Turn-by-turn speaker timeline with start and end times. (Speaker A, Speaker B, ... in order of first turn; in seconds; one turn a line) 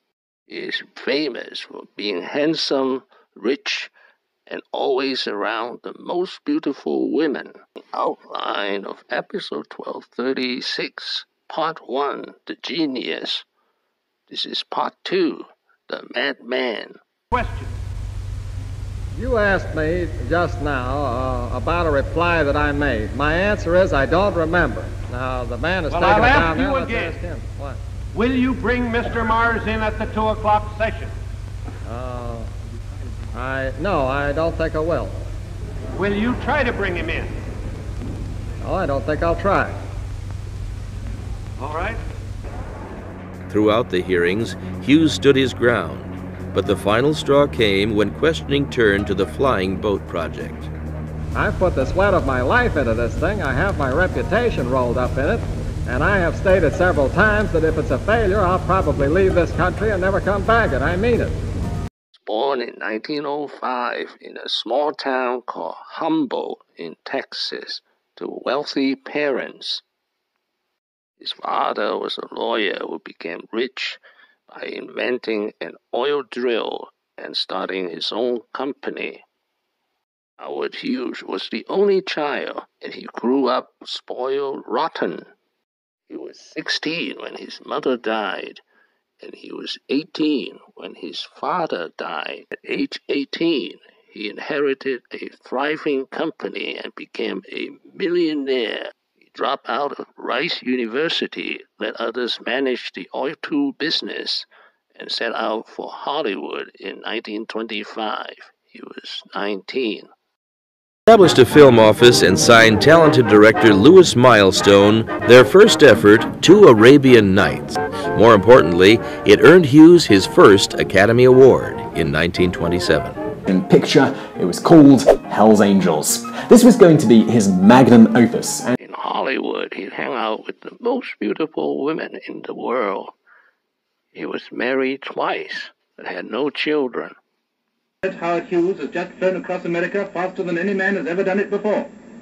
Speaker A: 0.5-3.9
Speaker A: 4.5-13.4
Speaker A: 14.3-17.0
Speaker B: 17.3-17.7
Speaker C: 19.1-27.8
Speaker B: 25.9-27.2
Speaker B: 28.1-31.1
Speaker C: 31.9-32.5
Speaker C: 33.3-35.2
Speaker B: 36.0-37.3
Speaker C: 38.6-39.8
Speaker B: 41.6-42.0
Speaker D: 43.5-50.7
Speaker C: 51.3-61.4
Speaker A: 62.1-69.8
Speaker A: 71.2-79.2
Speaker A: 80.4-85.3
Speaker A: 86.1-88.6
Speaker A: 89.2-110.1
Speaker D: 111.1-123.2
Speaker E: 123.5-128.8
Speaker A: 128.8-133.1
Speaker A: 134.1-137.2
Speaker F: 138.0-141.9